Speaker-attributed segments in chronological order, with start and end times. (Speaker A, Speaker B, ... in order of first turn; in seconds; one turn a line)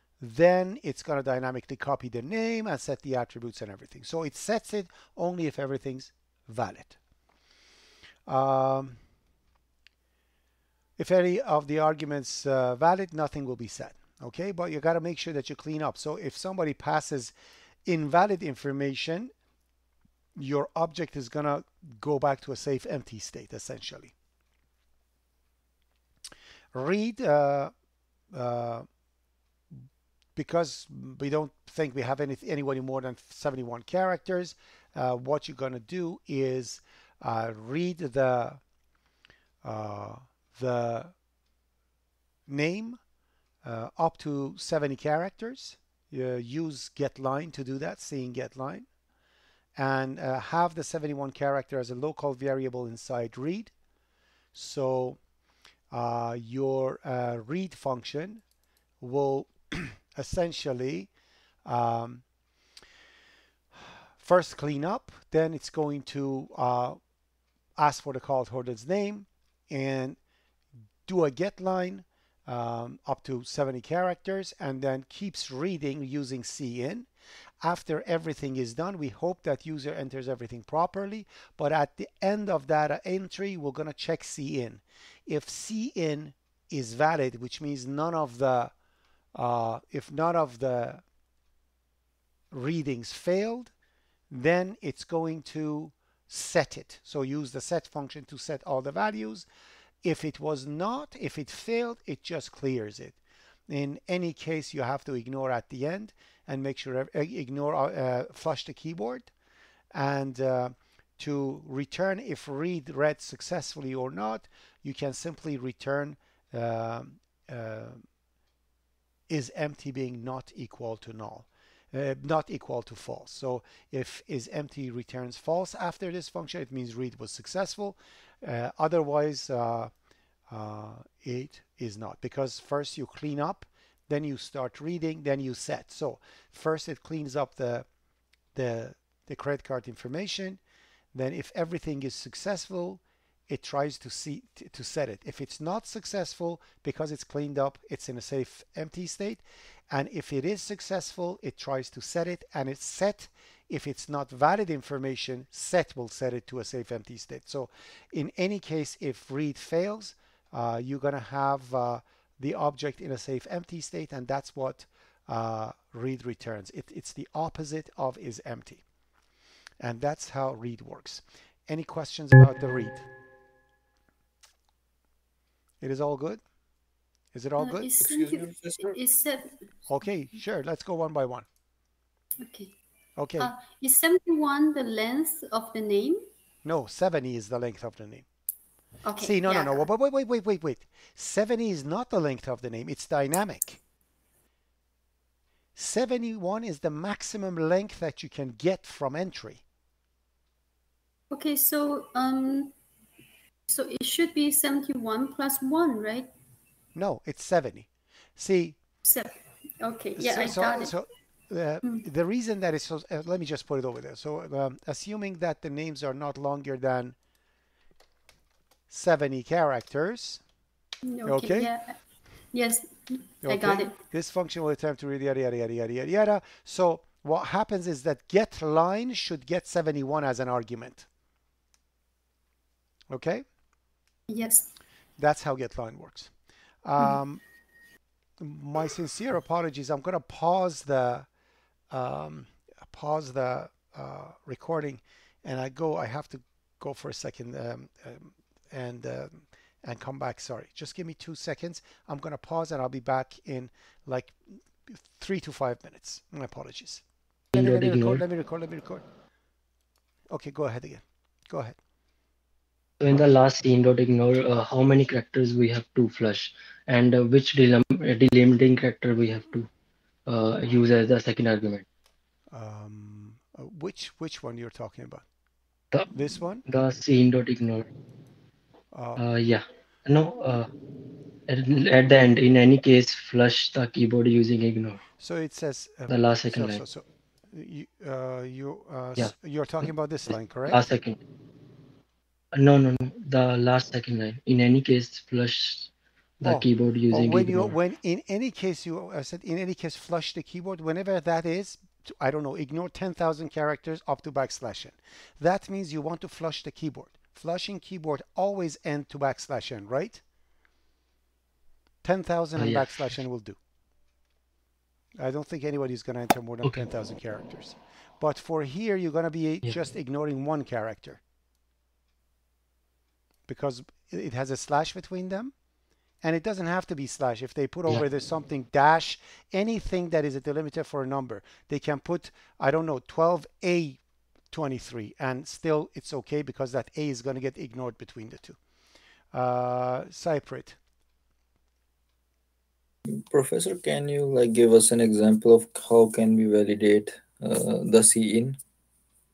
Speaker A: 0.2-7.0
Speaker A: 8.3-9.0
Speaker A: 11.0-17.3
Speaker A: 17.9-19.3
Speaker A: 20.4-24.1
Speaker A: 26.7-27.7
Speaker A: 28.3-28.9
Speaker A: 30.4-38.6
Speaker A: 39.6-41.1
Speaker A: 42.5-43.0
Speaker A: 43.6-48.9
Speaker A: 49.8-53.7
Speaker A: 54.5-55.2
Speaker A: 55.9-58.4
Speaker A: 59.0-61.1
Speaker A: 61.6-62.2
Speaker A: 64.2-67.0
Speaker A: 67.8-70.2
Speaker A: 71.0-77.1
Speaker A: 77.6-88.7
Speaker A: 89.3-91.0
Speaker A: 92.5-93.7
Speaker A: 94.3-99.5
Speaker A: 100.0-103.2
Speaker A: 103.7-109.3
Speaker A: 109.9-118.0
Speaker A: 119.3-129.9
Speaker A: 130.5-137.9
Speaker A: 138.5-140.6
Speaker A: 141.1-168.8
Speaker A: 169.8-173.1
Speaker A: 175.8-176.4
Speaker A: 177.3-177.9
Speaker B: 177.6-179.6
Speaker C: 178.0-179.0
Speaker A: 179.9-181.5
Speaker B: 182.4-182.8
Speaker A: 183.2-183.5
Speaker B: 183.4-186.3
Speaker A: 186.6-188.2
Speaker B: 189.0-189.8
Speaker A: 189.2-193.8
Speaker A: 195.8-199.6
Speaker B: 201.3-202.7
Speaker B: 203.7-206.3
Speaker A: 206.9-208.8
Speaker B: 209.0-210.9
Speaker A: 210.2-217.2
Speaker A: 218.9-220.4
Speaker B: 221.0-221.9
Speaker A: 221.2-221.7
Speaker B: 222.5-224.0
Speaker A: 223.4-231.1
Speaker A: 233.1-233.4
Speaker B: 234.3-234.7
Speaker A: 235.2-236.3
Speaker A: 236.8-237.4
Speaker A: 238.4-241.3
Speaker A: 241.9-257.0
Speaker D: 257.5-258.2
Speaker A: 257.5-259.0
Speaker A: 260.3-261.8
Speaker D: 263.0-269.7
Speaker D: 270.3-271.9
Speaker A: 272.5-275.2
Speaker A: 276.1-276.6
Speaker D: 276.6-277.9
Speaker A: 278.9-279.2
Speaker D: 279.2-280.7
Speaker D: 281.5-285.0
Speaker A: 285.2-290.8
Speaker D: 286.1-286.8
Speaker D: 290.7-291.2
Speaker D: 292.5-297.8
Speaker A: 296.4-310.2
Speaker A: 312.0-313.6
Speaker D: 312.6-313.1
Speaker A: 315.2-321.2
Speaker A: 323.5-325.5
Speaker A: 326.2-334.0
Speaker A: 334.5-338.6
Speaker A: 339.3-340.8
Speaker C: 343.1-348.6